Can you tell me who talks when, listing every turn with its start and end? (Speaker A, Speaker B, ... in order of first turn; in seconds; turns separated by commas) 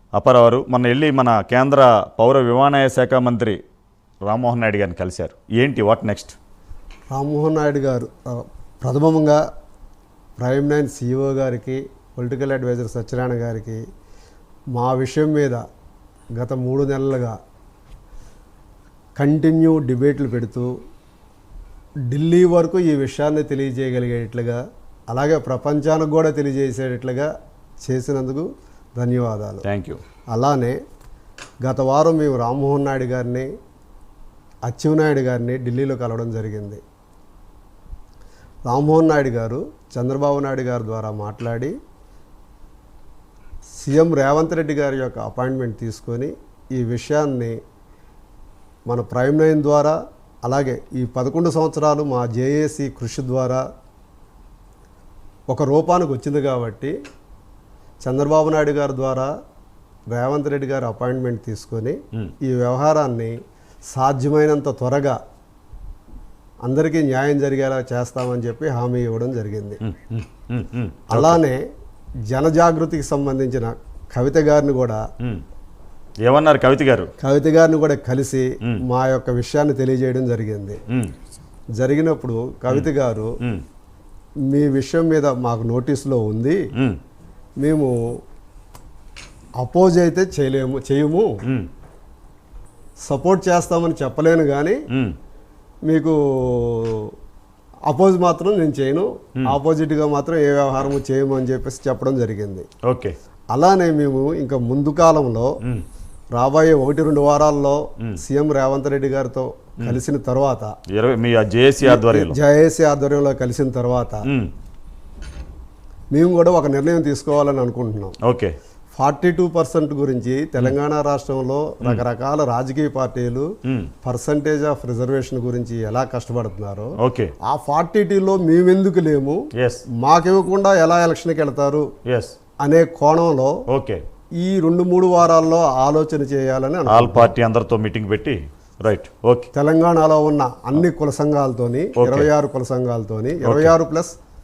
Speaker A: 0.2-3.6, Speaker A: 4.2-6.3, Speaker B: 7.1-9.4, Speaker B: 10.4-13.8, Speaker B: 14.7-15.6, Speaker B: 16.4-17.4, Speaker B: 19.2-20.7, Speaker B: 22.1-27.3, Speaker B: 27.8-29.6, Speaker A: 29.6-30.0, Speaker B: 30.3-30.8, Speaker B: 31.6-33.5, Speaker B: 34.6-36.8, Speaker B: 38.7-41.7, Speaker B: 43.8-47.5, Speaker B: 48.9-53.6, Speaker B: 55.5-56.9, Speaker B: 58.0-59.3, Speaker B: 60.1-63.3, Speaker B: 63.9-65.2, Speaker B: 66.6-69.8, Speaker A: 69.8-71.4, Speaker B: 71.1-71.6, Speaker B: 72.3-75.0, Speaker A: 76.2-77.1, Speaker B: 77.2-80.8, Speaker B: 81.8-83.3, Speaker B: 84.5-86.6, Speaker B: 87.6-87.9, Speaker B: 89.6-91.3, Speaker B: 93.1-94.8, Speaker B: 95.9-97.1, Speaker B: 97.9-102.7, Speaker A: 102.8-103.1, Speaker B: 103.5-105.5, Speaker B: 106.3-110.7, Speaker A: 110.9-112.4, Speaker B: 111.8-114.2, Speaker A: 114.2-114.5, Speaker B: 116.1-118.2, Speaker A: 118.2-118.5, Speaker B: 119.0-123.5, Speaker B: 124.0-126.9, Speaker A: 127.0-127.3, Speaker B: 127.4-129.4, Speaker A: 129.6-129.8, Speaker B: 130.0-131.9, Speaker A: 132.1-132.3, Speaker B: 132.6-133.5, Speaker A: 133.7-134.0, Speaker B: 134.4-137.3, Speaker A: 136.9-139.5, Speaker B: 139.5-144.2, Speaker A: 141.9-142.3, Speaker A: 143.4-143.7